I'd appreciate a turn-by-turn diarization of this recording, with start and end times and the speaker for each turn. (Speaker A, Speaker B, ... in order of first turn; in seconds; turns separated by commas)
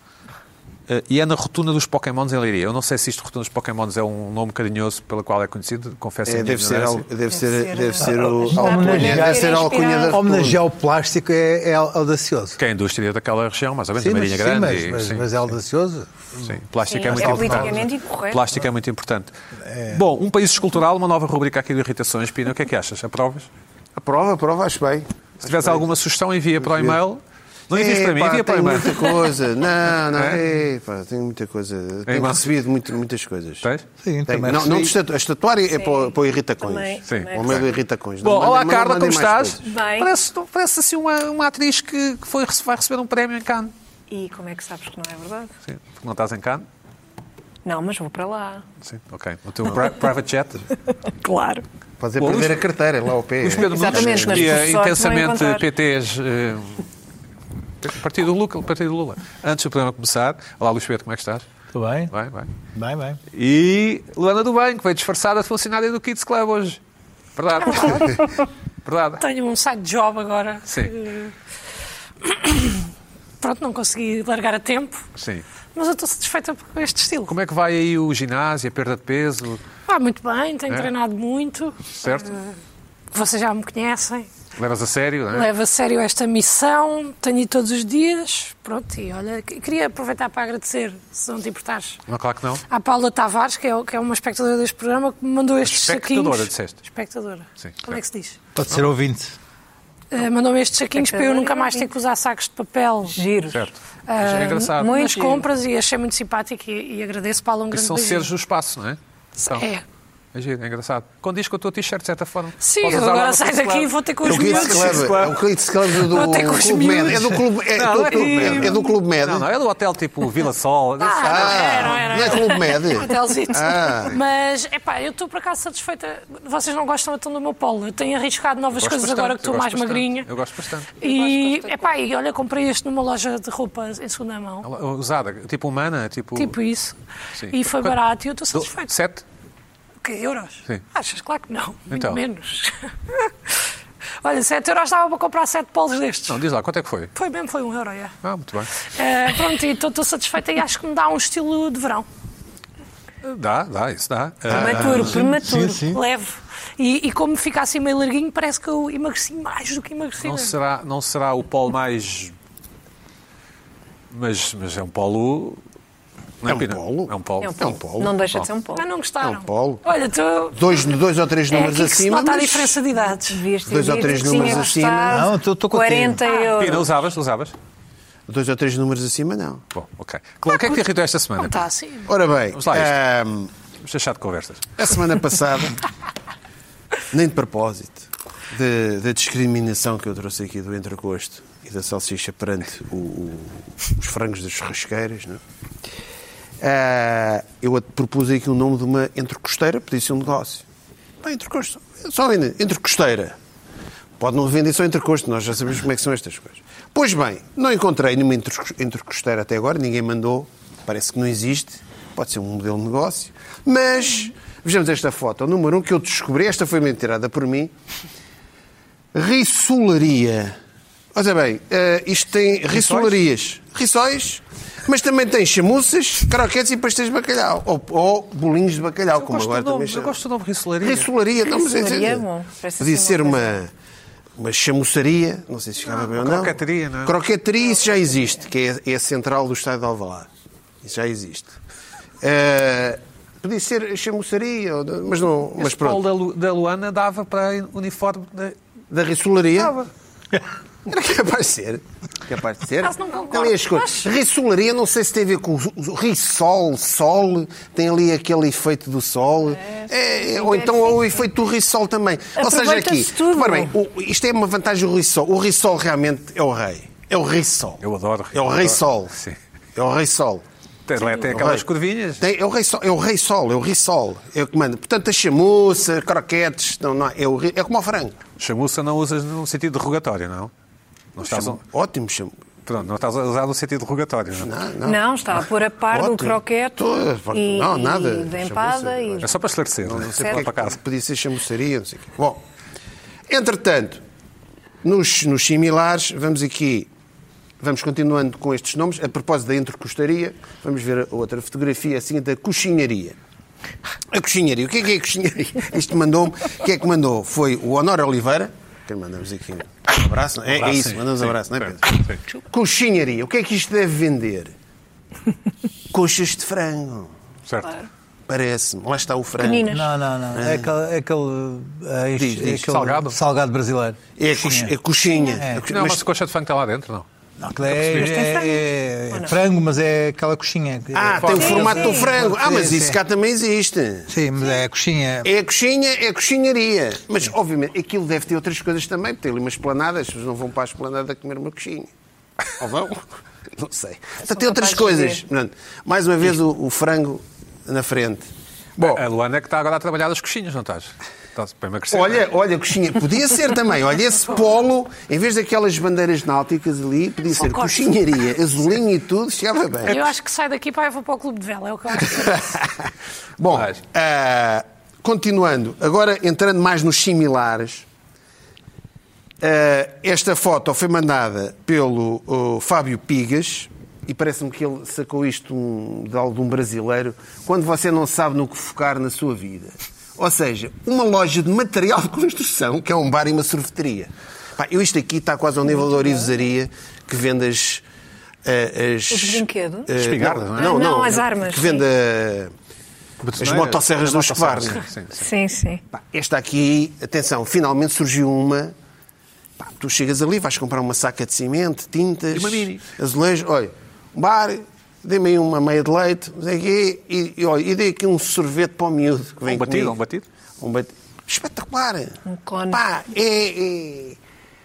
Speaker A: 0.9-7.0, Speaker B: 6.2-10.6, Speaker C: 7.3-10.2, Speaker D: 8.0-12.6, Speaker A: 12.6-15.5, Speaker D: 13.9-17.8, Speaker A: 16.4-19.3, Speaker C: 16.9-18.5, Speaker D: 19.6-20.0, Speaker A: 19.9-23.5, Speaker B: 23.9-26.0, Speaker A: 25.4-29.3, Speaker B: 26.6-27.0, Speaker B: 27.7-33.7, Speaker A: 30.1-30.4, Speaker A: 32.1-32.5, Speaker D: 34.0-34.9, Speaker B: 34.3-39.7, Speaker C: 35.8-37.7, Speaker A: 37.0-37.7, Speaker A: 38.2-43.7, Speaker C: 39.6-40.1, Speaker C: 44.1-45.5, Speaker A: 45.6-46.6, Speaker C: 47.6-48.6, Speaker A: 48.8-50.7, Speaker C: 51.0-51.6, Speaker B: 52.0-54.7, Speaker A: 52.2-52.6, Speaker A: 53.4-56.8, Speaker C: 53.5-55.7, Speaker A: 57.8-61.5, Speaker D: 61.7-62.1, Speaker A: 62.1-62.5, Speaker D: 62.7-63.2, Speaker A: 63.3-66.8, Speaker A: 67.3-68.3, Speaker E: 67.6-68.2, Speaker A: 68.8-69.2, Speaker E: 69.2-71.3, Speaker E: 72.2-72.9, Speaker E: 73.4-75.0, Speaker A: 75.2-75.4, Speaker E: 75.7-77.3, Speaker A: 77.3-79.6, Speaker E: 79.9-82.5, Speaker A: 81.9-82.3, Speaker E: 83.1-84.3, Speaker A: 84.5-85.5, Speaker E: 85.3-92.0, Speaker A: 92.1-92.6, Speaker E: 92.7-98.4, Speaker A: 95.6-96.8, Speaker A: 97.6-98.0, Speaker D: 98.5-99.3, Speaker E: 100.1-103.2, Speaker C: 101.0-101.9, Speaker C: 103.1-103.7, Speaker A: 103.5-104.9, Speaker E: 104.1-108.3, Speaker C: 104.8-105.5, Speaker A: 107.7-109.7, Speaker E: 109.4-109.8, Speaker A: 110.3-115.4, Speaker E: 112.6-115.1, Speaker B: 114.2-119.5, Speaker E: 115.9-118.9, Speaker A: 117.7-122.3, Speaker E: 121.0-130.3, Speaker B: 121.2-124.2, Speaker A: 128.8-131.9, Speaker E: 131.0-134.7, Speaker A: 134.6-136.6, Speaker E: 136.3-136.9, Speaker A: 137.3-138.0, Speaker E: 137.5-138.9, Speaker A: 138.5-139.2, Speaker E: 140.0-143.6, Speaker A: 141.9-142.2, Speaker E: 144.2-146.4, Speaker A: 146.3-147.1, Speaker E: 147.1-148.1, Speaker A: 148.2-148.7, Speaker E: 148.8-152.1, Speaker A: 153.2-155.2, Speaker C: 154.5-155.9, Speaker B: 154.6-155.1, Speaker D: 154.6-156.0, Speaker E: 155.9-160.5, Speaker A: 160.2-162.3, Speaker A: 164.1-165.6, Speaker A: 166.4-167.8, Speaker B: 166.4-168.2, Speaker C: 167.4-168.8, Speaker E: 168.7-170.9, Speaker B: 169.2-169.8, Speaker B: 170.5-172.8, Speaker E: 171.5-173.4, Speaker C: 173.2-177.0, Speaker B: 173.7-175.3, Speaker E: 174.0-174.7, Speaker D: 175.1-176.2, Speaker A: 176.6-177.5, Speaker B: 178.3-179.6, Speaker A: 179.7-181.6, Speaker E: 180.5-180.7, Speaker E: 181.4-182.1, Speaker B: 182.1-183.5, Speaker A: 182.5-183.0, Speaker A: 183.8-184.7, Speaker B: 184.8-185.8, Speaker B: 187.1-195.4, Speaker B: 196.6-200.6, Speaker B: 201.2-203.3, Speaker B: 204.2-217.7, Speaker B: 219.1-220.6, Speaker B: 221.1-230.2, Speaker A: 222.7-223.2, Speaker A: 229.1-231.1, Speaker B: 230.8-232.2, Speaker C: 231.5-233.6, Speaker B: 232.8-233.7, Speaker B: 234.4-240.3, Speaker A: 236.2-237.2, Speaker B: 240.8-241.6, Speaker B: 242.2-246.0, Speaker A: 245.6-248.6, Speaker B: 248.9-249.7, Speaker A: 249.6-249.9, Speaker B: 250.8-269.1, Speaker E: 252.8-254.1, Speaker C: 259.5-261.2, Speaker C: 262.4-263.7, Speaker A: 267.8-269.4, Speaker B: 269.8-270.4, Speaker A: 270.9-272.2, Speaker B: 271.3-271.7, Speaker B: 272.2-278.2, Speaker A: 278.4-280.5, Speaker A: 281.1-281.6, Speaker B: 281.2-282.4, Speaker A: 282.6-284.5, Speaker B: 284.4-292.4, Speaker C: 284.8-289.4, Speaker A: 289.2-290.8, Speaker B: 293.3-294.0, Speaker B: 294.8-296.9, Speaker B: 297.6-303.2, Speaker B: 304.1-314.5, Speaker A: 310.5-312.2, Speaker B: 315.9-317.1, Speaker A: 317.5-317.8, Speaker B: 318.3-319.8, Speaker C: 319.4-319.9, Speaker D: 319.7-324.7, Speaker B: 320.3-320.7, Speaker B: 322.2-322.7, Speaker A: 322.6-323.2, Speaker B: 324.2-326.0, Speaker D: 325.3-325.7, Speaker A: 325.7-327.1, Speaker D: 327.4-333.0, Speaker A: 327.6-328.1, Speaker C: 327.9-329.4, Speaker B: 330.9-334.1, Speaker A: 331.1-331.7, Speaker C: 331.3-332.1, Speaker D: 334.1-335.3, Speaker B: 335.2-341.9, Speaker B: 342.6-349.0, Speaker C: 344.3-345.2, Speaker A: 348.8-352.3, Speaker B: 351.9-360.1, Speaker E: 357.3-357.9, Speaker E: 359.8-362.5, Speaker B: 361.9-367.9, Speaker A: 363.5-363.8, Speaker B: 369.4-387.8, Speaker B: 388.4-392.5, Speaker C: 389.1-389.9, Speaker A: 389.9-390.7, Speaker C: 390.6-391.8, Speaker A: 393.2-395.3, Speaker B: 393.4-394.8, Speaker C: 395.1-395.8, Speaker B: 395.9-398.7, Speaker B: 399.6-410.0, Speaker A: 402.3-402.8, Speaker A: 409.4-410.2, Speaker B: 410.6-414.2, Speaker C: 412.2-412.8